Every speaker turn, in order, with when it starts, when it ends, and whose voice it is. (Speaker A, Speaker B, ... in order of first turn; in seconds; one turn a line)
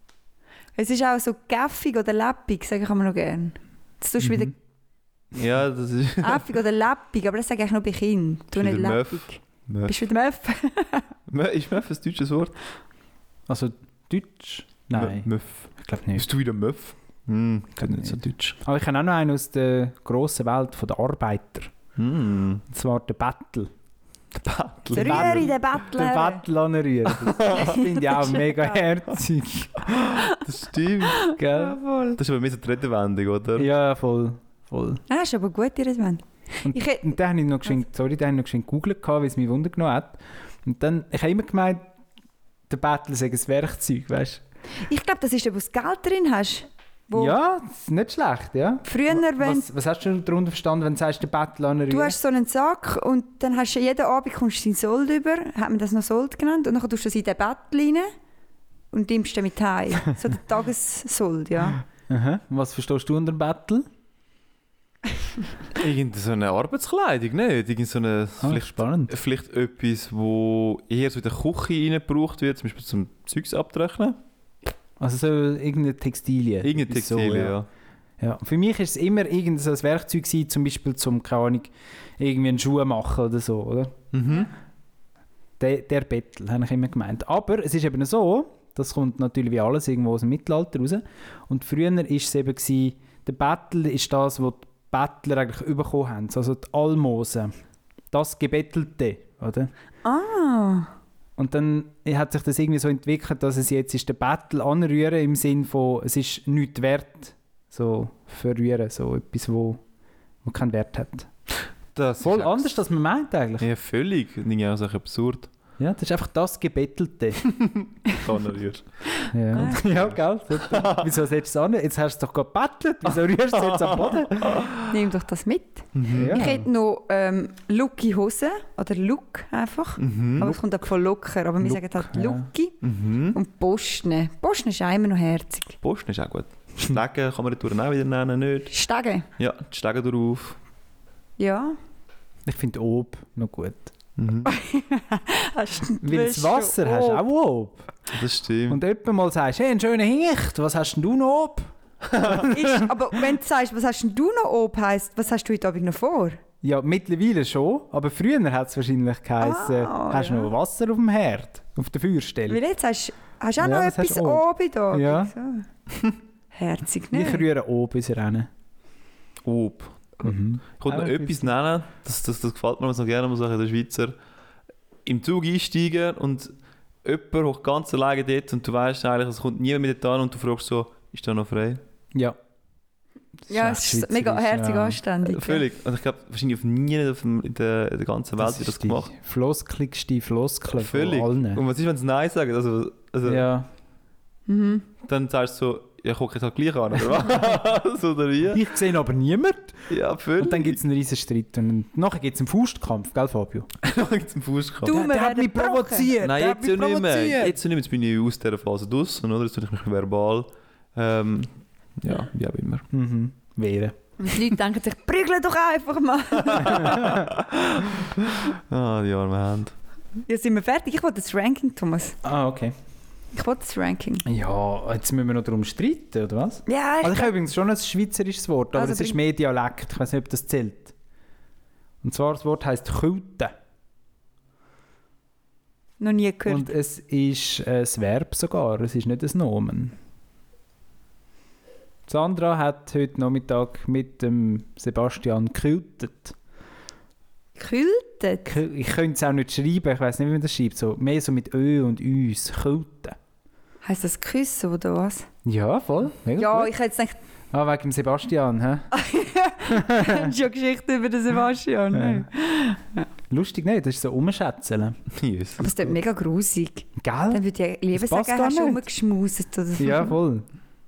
Speaker A: 0.8-4.5
Speaker B: 4.2-4.5
Speaker C: 5.3-6.5
Speaker A: 6.2-11.1
Speaker C: 8.5-9.9
Speaker C: 11.3-12.5
Speaker B: 13.5-16.2
Speaker C: 14.9-18.5
Speaker B: 17.8-21.7
Speaker C: 21.9-22.6
Speaker B: 22.7-23.7
Speaker C: 24.3-25.5
Speaker A: 24.9-26.4
Speaker B: 24.9-30.1
Speaker C: 27.2-27.7
Speaker A: 27.5-28.7
Speaker C: 30.2-31.3
Speaker A: 31.1-32.2
Speaker B: 31.4-31.8
Speaker C: 32.1-33.7
Speaker B: 33.5-35.0
Speaker A: 35.1-37.1
Speaker B: 36.6-41.9
Speaker B: 42.7-44.4
Speaker A: 44.9-47.4
Speaker B: 47.1-52.2
Speaker A: 48.8-49.7
Speaker A: 51.9-58.1
Speaker A: 58.9-61.8
Speaker B: 62.1-63.9
Speaker C: 65.7-74.2
Speaker B: 68.4-69.1
Speaker B: 75.0-77.6
Speaker C: 76.6-77.7
Speaker B: 78.2-84.0
Speaker C: 84.1-84.5
Speaker B: 85.6-97.5
Speaker B: 98.1-99.7
Speaker A: 100.0-100.9
Speaker B: 101.4-109.8
Speaker B: 110.4-111.3
Speaker C: 111.9-112.7
Speaker B: 112.2-113.7
Speaker C: 113.6-115.5
Speaker B: 115.8-117.5
Speaker C: 117.5-118.8
Speaker B: 119.3-124.6
Speaker C: 119.5-121.1
Speaker C: 123.6-124.9
Speaker A: 124.8-132.8
Speaker C: 125.9-126.4
Speaker B: 126.1-126.7
Speaker C: 130.0-130.6
Speaker B: 131.6-132.5
Speaker C: 132.8-133.4
Speaker A: 133.3-135.8
Speaker C: 135.8-138.7
Speaker A: 138.7-139.3
Speaker C: 139.4-140.6
Speaker A: 141.4-141.8
Speaker B: 142.5-143.9
Speaker C: 144.2-144.5
Speaker A: 144.4-147.2
Speaker B: 146.0-147.9
Speaker C: 148.1-148.8
Speaker B: 148.7-152.9
Speaker A: 152.4-156.4
Speaker B: 156.6-162.6
Speaker A: 159.4-160.5
Speaker A: 162.5-165.7
Speaker B: 163.6-165.3
Speaker A: 166.5-167.4
Speaker B: 167.1-168.5
Speaker C: 169.4-174.1
Speaker B: 170.2-171.5
Speaker C: 175.1-176.5
Speaker C: 177.0-181.8
Speaker B: 183.5-185.0
Speaker A: 183.5-185.6
Speaker C: 185.2-189.1
Speaker B: 188.4-191.6
Speaker C: 190.7-193.5
Speaker B: 193.2-193.7
Speaker A: 194.5-194.8
Speaker C: 195.0-198.6
Speaker B: 198.5-203.7
Speaker C: 199.9-200.8
Speaker C: 203.8-205.0
Speaker A: 204.8-206.1
Speaker B: 204.9-207.6
Speaker C: 206.2-212.9
Speaker B: 212.9-213.9
Speaker A: 214.2-217.1
Speaker B: 216.6-217.3
Speaker C: 216.6-219.7
Speaker A: 220.3-222.2
Speaker B: 222.2-222.7
Speaker A: 223.3-224.2
Speaker B: 224.2-230.9
Speaker A: 226.7-227.3
Speaker A: 228.7-229.2
Speaker B: 232.0-233.5
Speaker A: 236.0-236.7
Speaker B: 236.5-239.9
Speaker B: 242.1-246.3
Speaker A: 247.6-248.5
Speaker B: 248.4-253.2
Speaker A: 253.8-255.3
Speaker B: 255.4-256.7
Speaker A: 256.4-257.2
Speaker B: 257.5-258.9
Speaker A: 258.9-263.1
Speaker B: 259.6-260.3
Speaker B: 261.9-262.3
Speaker B: 263.3-265.0
Speaker C: 265.1-265.7
Speaker A: 265.6-270.1
Speaker B: 267.0-267.4
Speaker B: 267.9-268.8
Speaker B: 269.8-270.4